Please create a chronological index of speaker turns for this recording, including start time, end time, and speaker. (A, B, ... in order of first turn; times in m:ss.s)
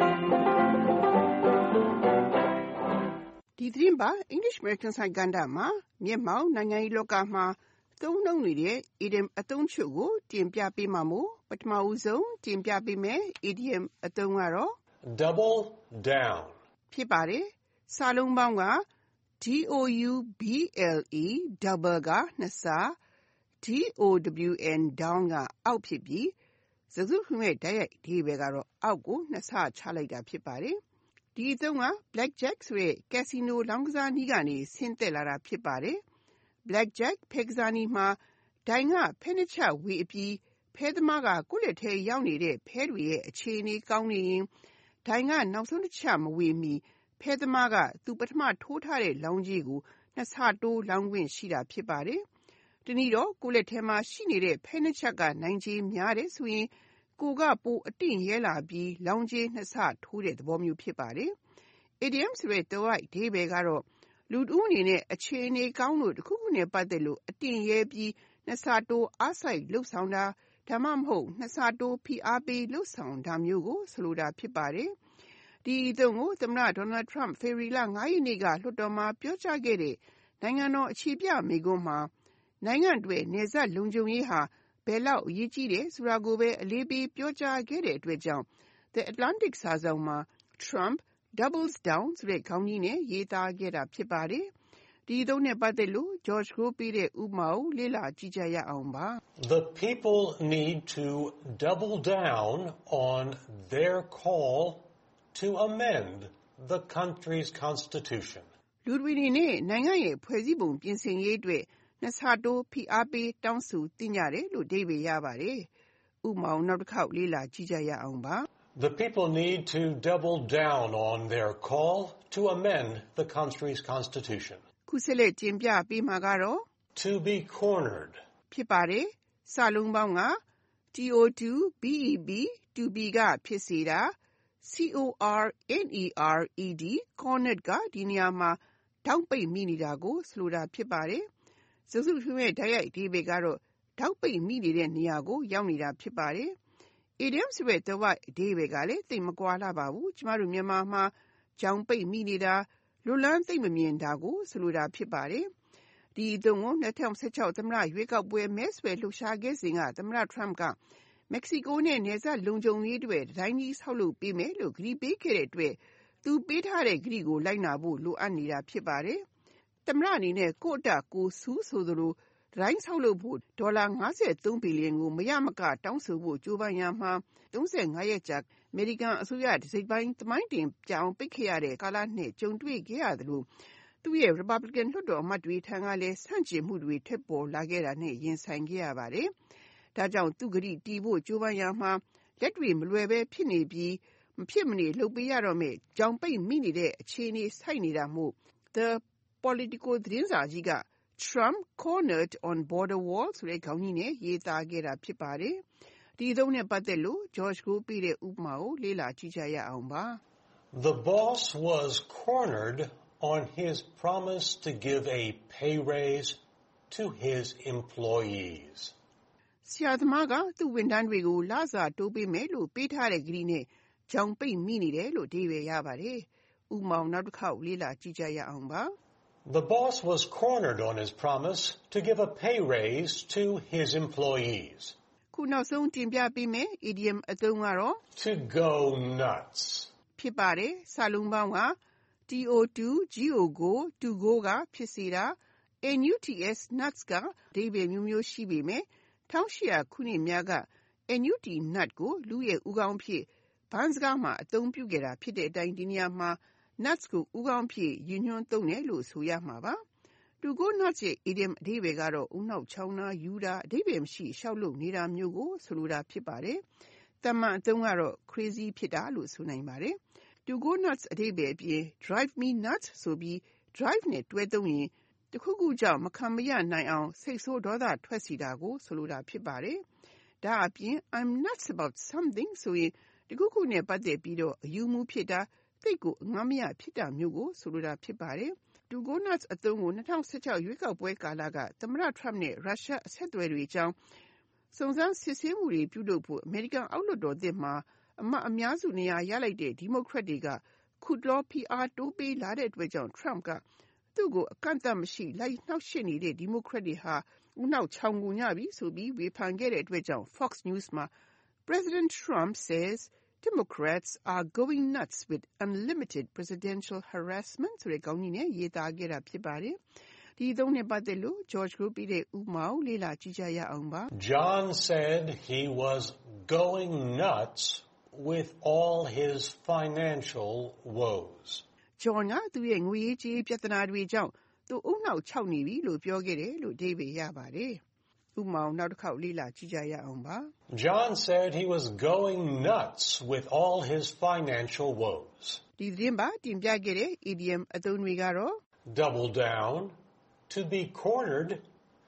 0:03.6-0:14.8 A
0:15.0-0:16.6 B
0:16.9-0:18.8 A
0:19.4-0:23.0 A
0:23.6-0:26.3 A
0:26.9-0:30.8 A
0:31.4-0:36.0 A
0:36.6-0:44.5 A
0:45.0-0:52.2 A
0:52.8-1:01.4 A
1:02.0-1:14.9 A
1:15.6-1:34.5 A
1:35.1-1:39.2 A
1:39.4-1:48.5 B
1:48.8-1:55.7 A
1:56.2-1:58.5 A
1:58.8-2:04.6 B
2:04.9-2:06.6 A
2:07.0-2:08.2 B
2:08.5-2:10.4 A
2:10.9-2:21.2 A
2:21.9-2:26.6 A
2:27.2-2:35.5 A
2:36.2-2:40.8 A
2:41.3-2:49.2 A
2:49.8-3:03.5 A
3:04.0-3:09.3 A
3:09.9-3:25.6 A
3:26.2-3:30.2 A
3:30.7-3:38.9 B
3:39.6-3:49.0 A
3:49.4-3:55.0 B
3:55.3-3:58.0 A
3:58.2-3:59.9 B
4:00.2-4:01.8 A
4:02.3-4:19.8 A
4:20.4-4:26.6 A
4:27.2-4:39.8 A
4:40.4-4:54.0 A
4:54.7-5:03.6 A
5:04.2-5:11.1 A
5:11.7-5:19.8 A
5:20.4-5:24.1 A
5:24.1-5:31.6 B
5:32.0-5:37.8 A
5:38.4-5:40.5 A
5:40.7-5:45.6 B
5:45.8-5:48.6 A
5:48.9-5:50.0 B
5:50.5-5:51.6 B